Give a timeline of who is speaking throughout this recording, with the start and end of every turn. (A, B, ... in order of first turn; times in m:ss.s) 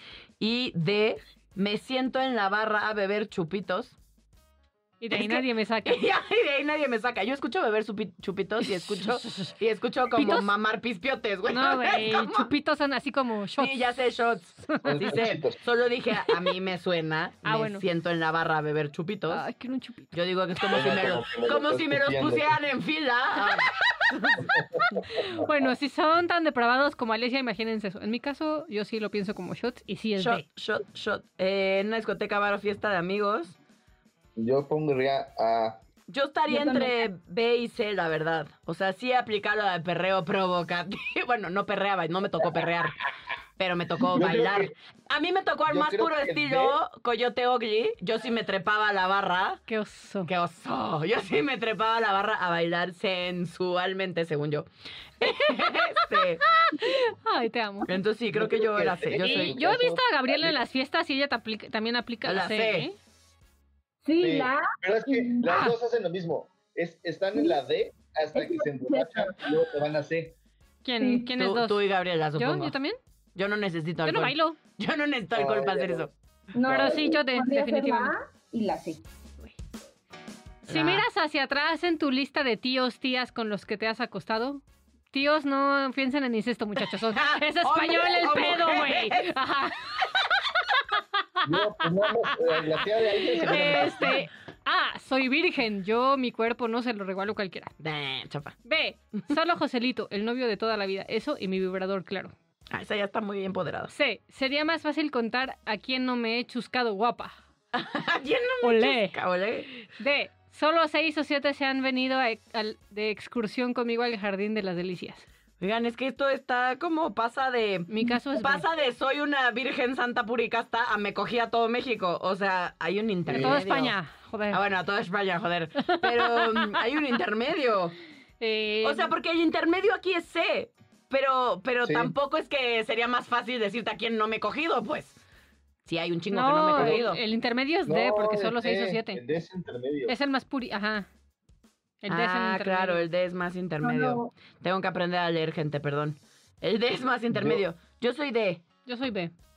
0:00.4-0:04.0 A
0:05.0-0:06.0 B
0:05.1-0:12.5 A
0:08.7-0:09.5 B
0:10.2-0:10.4 B
0:11.5-0:13.8 B
0:13.6-0:19.4 A
0:14.7-0:15.0 B
0:14.8-0:15.6 C
0:17.4-0:17.8 B
0:19.3-0:20.1 B
0:20.1-0:24.5 A
0:20.7-0:22.6 C
0:24.5-0:25.7 C
0:24.9-0:30.4 B
0:30.2-0:33.6 A
0:34.4-0:35.8 C
0:36.1-0:43.0 A
0:36.5-0:37.0 D
0:43.6-0:49.6 A
0:44.0-0:44.7 C
0:45.7-0:46.8 C
0:49.7-0:50.3 B
0:50.2-0:54.7 A
0:55.2-0:56.4 A
0:56.4-0:57.9 B
0:57.9-0:59.5 A
0:58.3-1:00.5 C
0:59.2-1:02.9 B
1:02.2-1:02.9 A
1:04.0-1:05.5 D
1:04.2-1:10.3 C
1:05.4-1:05.7 B
1:08.3-1:09.6 D
1:10.8-1:11.8 B
1:11.0-1:11.2 D
1:11.4-1:12.7 A
1:12.4-1:13.0 B
1:13.4-1:16.1 A
1:14.0-1:14.6 B
1:15.3-1:16.1 C
1:16.5-1:19.0 D
1:16.6-1:17.1 C
1:16.7-1:18.1 B
1:20.7-1:21.0 A
1:20.7-1:29.9 B
1:26.8-1:29.3 A
1:31.4-1:34.2 C
1:31.5-1:32.4 B
1:33.1-1:37.7 B
1:37.8-1:38.6 A
1:38.6-1:42.3 B
1:42.7-1:43.9 A
1:43.9-1:47.4 B
1:47.7-1:49.8 A
1:48.6-1:49.2 B
1:50.0-1:55.2 B
1:55.6-2:04.0 A
1:57.9-1:58.6 B
2:03.3-2:03.6 C
2:03.3-2:04.6 B
2:04.5-2:08.0 A
2:05.8-2:06.8 B
2:08.4-2:09.1 B
2:08.8-2:15.2 A
2:11.8-2:12.1 C
2:15.8-2:17.2 A
2:16.3-2:19.2 B
2:16.8-2:17.0 C
2:17.8-2:20.1 C
2:20.1-2:21.1 B
2:22.0-2:23.0 B
2:22.1-2:28.6 A
2:23.8-2:24.3 D
2:27.3-2:27.6 C
2:28.8-2:29.3 B